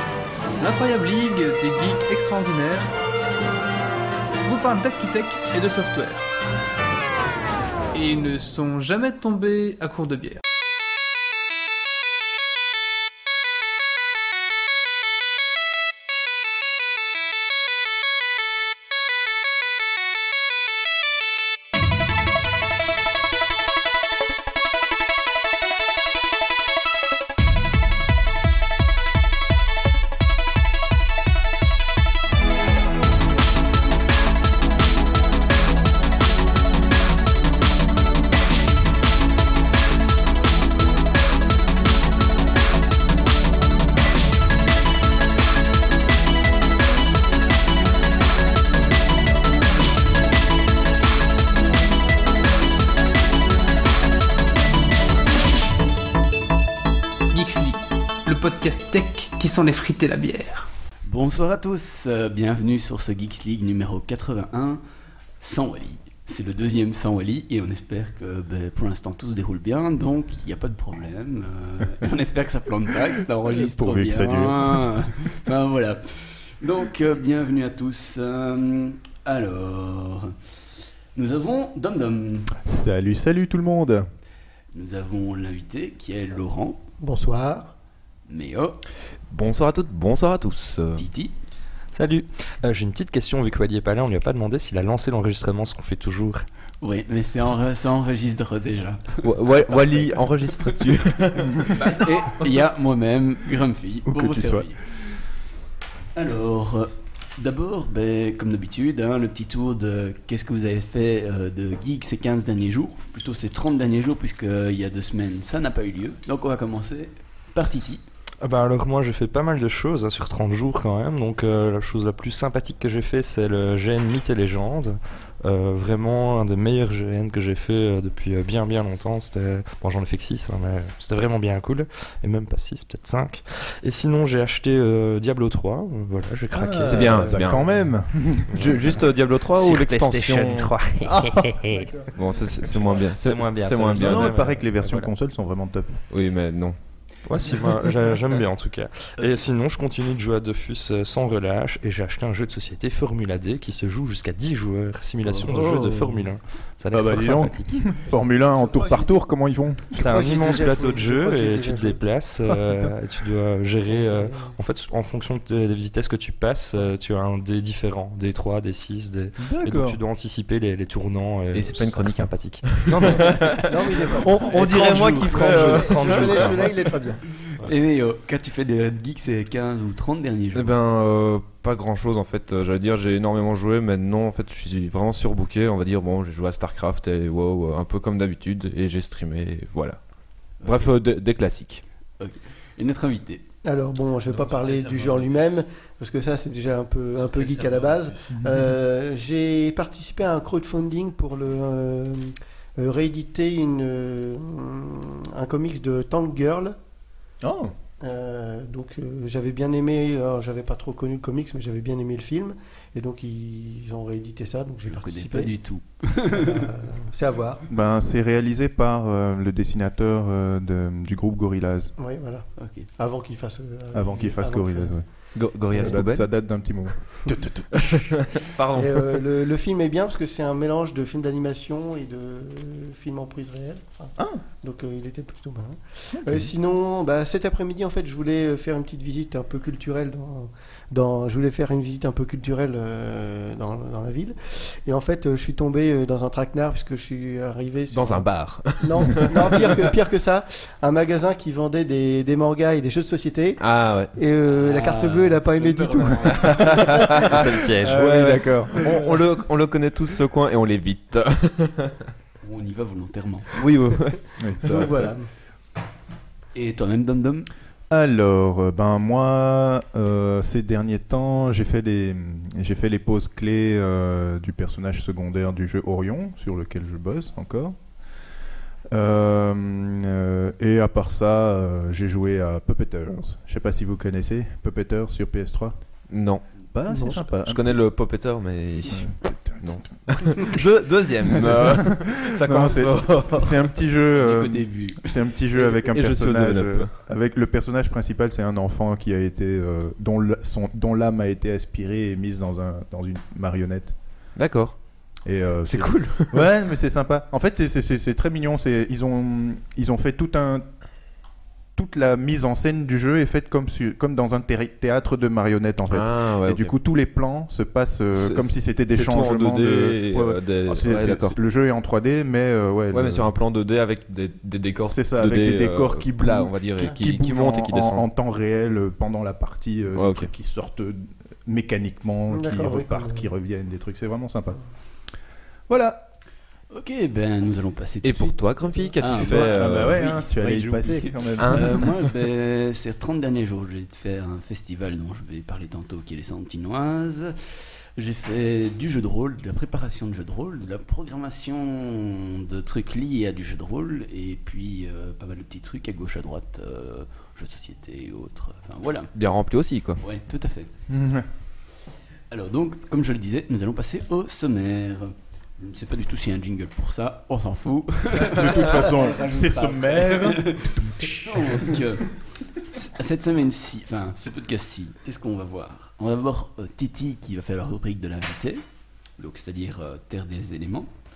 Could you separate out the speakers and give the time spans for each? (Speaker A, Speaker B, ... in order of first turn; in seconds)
Speaker A: 0.6-2.9, 4.4-6.3, 7.9-10.4, 57.3-60.7
Speaker B: 61.1-64.8, 65.4-80.3, 81.2-82.6, 84.7-86.8, 88.3-88.8, 91.0-91.3, 96.8-100.2, 101.7-105.3, 106.2-118.0, 177.6-180.8, 190.6-190.9, 192.2-193.5, 194.3-195.5, 197.2-198.3, 214.9-216.7, 222.6-222.9, 254.6-257.2, 262.4-263.5, 266.5-267.5, 294.1-295.7, 336.7-359.1, 360.0-360.7, 362.3-378.6, 379.2-380.9
Speaker C: 73.5-75.0, 82.7-84.1, 104.1-104.7, 136.5-138.5, 141.0-141.9, 143.9-146.0, 155.3-155.8, 156.9-159.9, 162.5-162.9, 169.4-170.0, 207.4-207.7, 217.7-221.9, 223.9-228.2, 236.1-236.5, 257.8-259.0, 263.6-265.1, 267.9-277.8, 278.9-285.8, 286.6-287.9, 288.9-290.6, 291.2-304.0, 305.2-310.8, 311.8-323.3, 324.9-334.6, 335.7-336.1, 339.2-341.8, 360.9-361.3, 368.2-371.8
Speaker D: 87.0-87.7, 158.7-159.1, 159.9-162.0, 163.9-164.6, 173.7-177.2, 193.7-206.8, 208.0-215.5, 216.3-217.6, 222.0-226.0, 228.8-257.0, 264.6-265.3, 286.9-287.2, 332.3-333.3
Speaker E: 89.3-91.1, 99.2-102.1, 136.8-137.8, 138.5-140.7, 142.1-144.4, 146.1-146.8, 171.5-173.7, 174.5-176.5, 180.5-191.8, 225.3-226.3, 227.9-229.2, 247.9-249.7, 253.6-254.1, 256.6-262.0, 263.6-264.9, 286.1-286.5, 287.3-293.6, 295.9-296.9, 304.4-306.5, 315.9-316.7, 318.2-321.4, 322.9-328.1, 330.0-330.3, 338.0-340.0, 341.4-342.0, 359.1-360.0
Speaker F: 91.9-96.5, 118.4-137.8, 138.5-142.0, 143.0-145.1, 147.2-158.0, 160.0-173.7, 174.4-176.7, 257.3-258.1